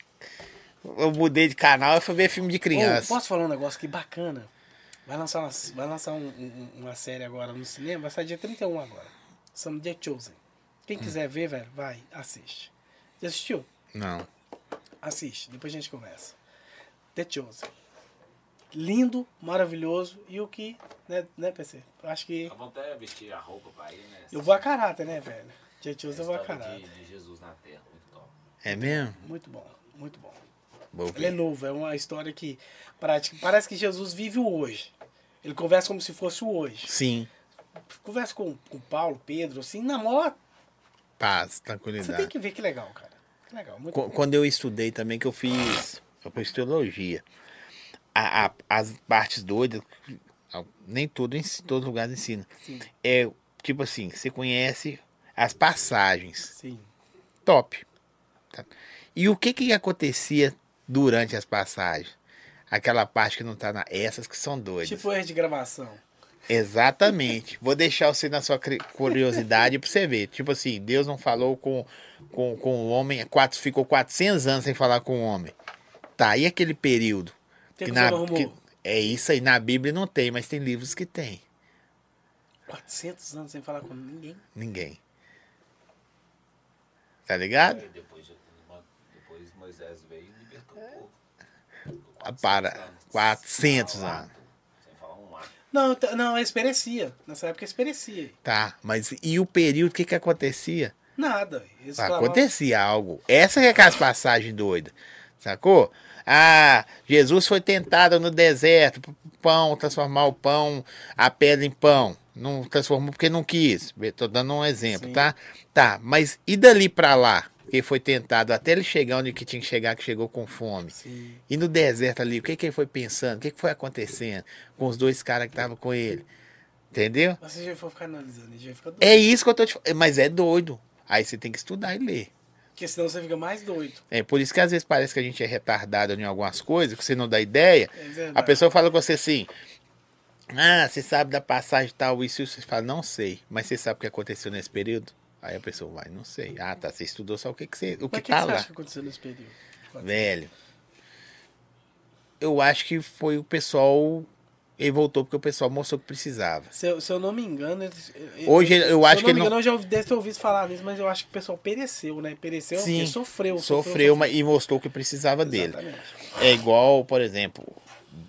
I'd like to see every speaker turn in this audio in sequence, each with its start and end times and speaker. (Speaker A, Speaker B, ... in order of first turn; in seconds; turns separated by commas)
Speaker A: 0.8-3.2, Speaker B: 2.7-4.5, Speaker B: 5.1-13.7, Speaker A: 13.9-14.3, Speaker B: 15.0-16.4, Speaker B: 17.1-17.7, Speaker B: 18.7-22.5, Speaker C: 22.5-24.6, Speaker B: 24.3-26.9, Speaker C: 26.1-28.3, Speaker A: 28.6-29.2, Speaker B: 28.7-30.4, Speaker A: 30.9-31.4, Speaker B: 31.1-34.9, Speaker B: 35.4-36.9, Speaker A: 36.9-37.3, Speaker B: 37.9-40.4, Speaker A: 41.2-42.3, Speaker B: 42.0-44.1, Speaker A: 43.9-47.2, Speaker A: 48.1-52.5, Speaker B: 52.6-52.9, Speaker A: 53.0-56.5, Speaker B: 56.5-56.9, Speaker A: 57.5-57.9, Speaker A: 58.5-62.1, Speaker A: 62.7-65.0, Speaker B: 64.8-66.0, Speaker A: 66.5-75.5, Speaker A: 76.2-81.4, Speaker B: 77.8-78.6, Speaker B: 82.7-84.4, Speaker A: 84.5-85.0, Speaker A: 87.3-87.9, Speaker C: 87.6-91.2, Speaker C: 91.9-95.5, Speaker A: 92.2-94.3, Speaker B: 95.7-98.4, Speaker A: 98.5-101.0, Speaker B: 101.2-102.5, Speaker A: 102.0-121.0, Speaker B: 114.9-115.3, Speaker B: 120.9-121.4, Speaker A: 121.5-126.3, Speaker A: 126.9-127.4, Speaker B: 127.4-129.4, Speaker A: 129.0-132.3, Speaker B: 132.8-134.0, Speaker A: 134.1-139.5, Speaker B: 137.9-138.6, Speaker A: 140.5-148.7, Speaker B: 148.1-150.3, Speaker A: 150.0-150.5, Speaker A: 152.4-156.7, Speaker B: 156.7-164.3, Speaker A: 158.4-159.5, Speaker A: 162.8-165.8, Speaker B: 165.4-166.2, Speaker A: 166.3-167.8